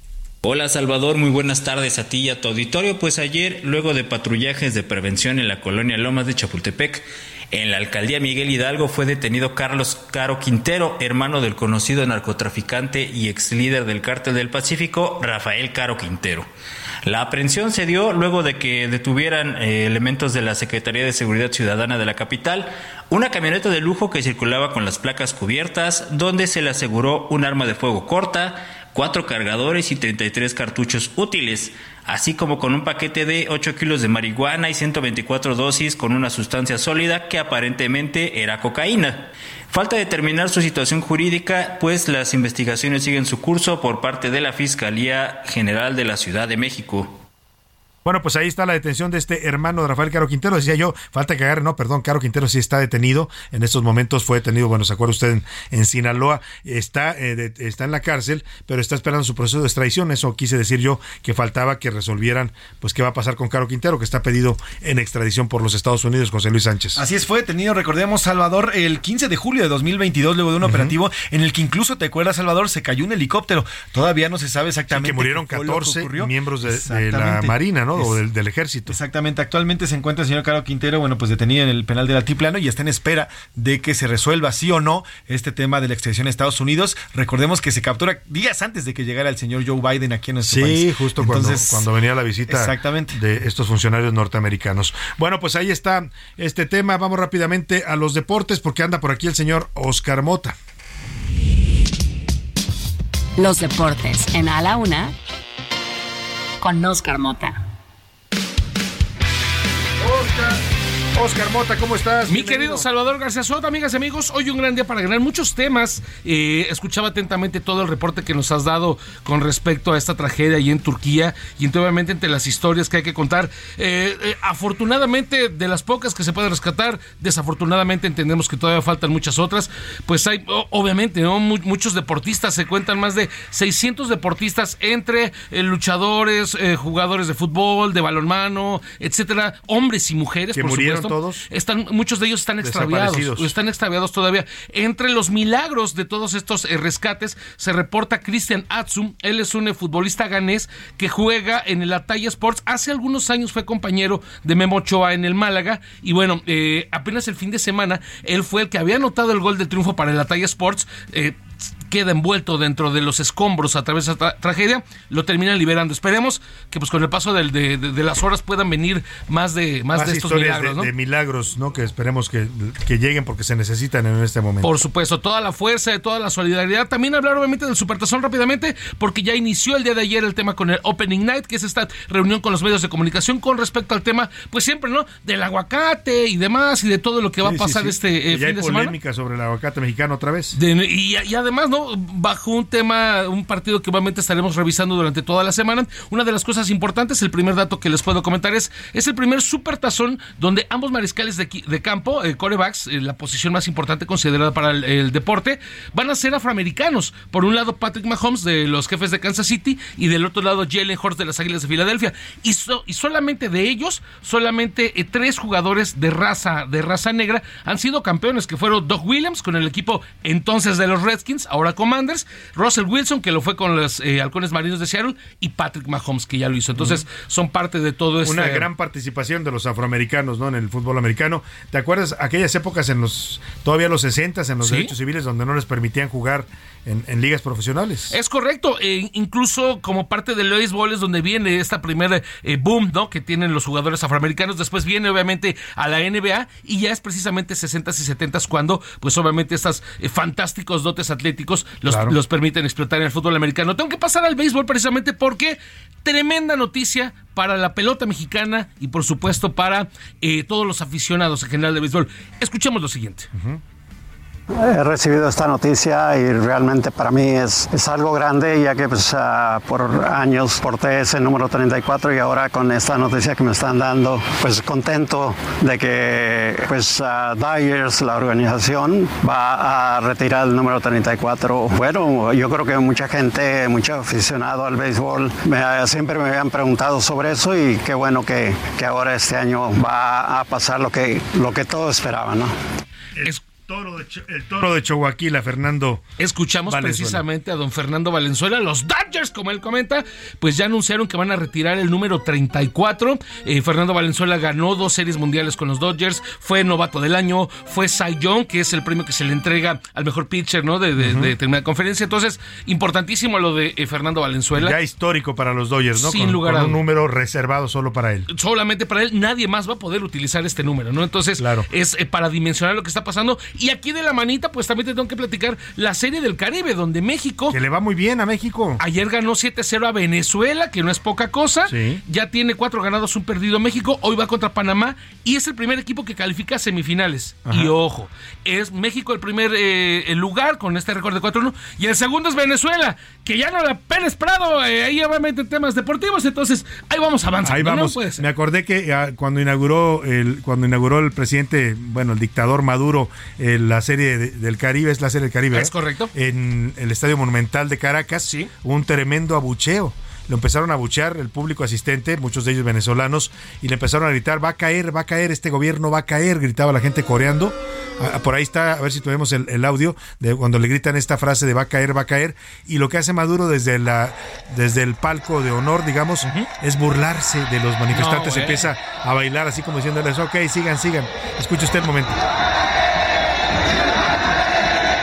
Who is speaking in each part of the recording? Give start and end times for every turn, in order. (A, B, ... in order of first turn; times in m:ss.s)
0:00.4-0:16.4 A
0:17.1-0:47.1 A
0:48.0-1:07.0 B
1:07.0-1:18.2 C
1:10.6-1:10.9 B
1:14.9-1:19.0 B
1:18.9-1:31.9 C
1:30.4-1:40.5 B
1:32.4-1:33.2 C
1:43.4-1:45.1 D
1:46.6-1:47.6 D
1:50.0-1:50.6 B
1:51.2-1:52.8 B
1:52.3-2:50.9 E
2:20.5-2:21.4 B
2:22.6-2:23.5 B
2:49.9-2:54.7 B
2:54.6-3:08.9 E
3:07.4-3:10.6 B
3:10.5-3:48.7 E
3:46.8-3:47.0 B
3:48.2-3:58.1 B
3:54.6-3:54.9 E
3:58.1-4:23.3 E
4:11.8-4:12.1 B
4:24.6-4:52.5 F
4:53.2-4:56.0 B
4:56.2-5:14.7 E
4:56.7-4:57.2 B
5:11.0-5:11.3 B
5:14.6-5:18.3 B
5:16.0-5:16.8 E
5:18.3-5:27.6 E
5:21.4-5:21.6 B
5:27.5-5:28.8 B
5:28.8-5:48.2 E
5:31.7-5:32.0 B
5:37.5-5:37.7 B
5:47.4-6:22.2 B
5:55.5-5:56.1 E
5:58.2-5:58.5 E
6:17.9-6:18.6 E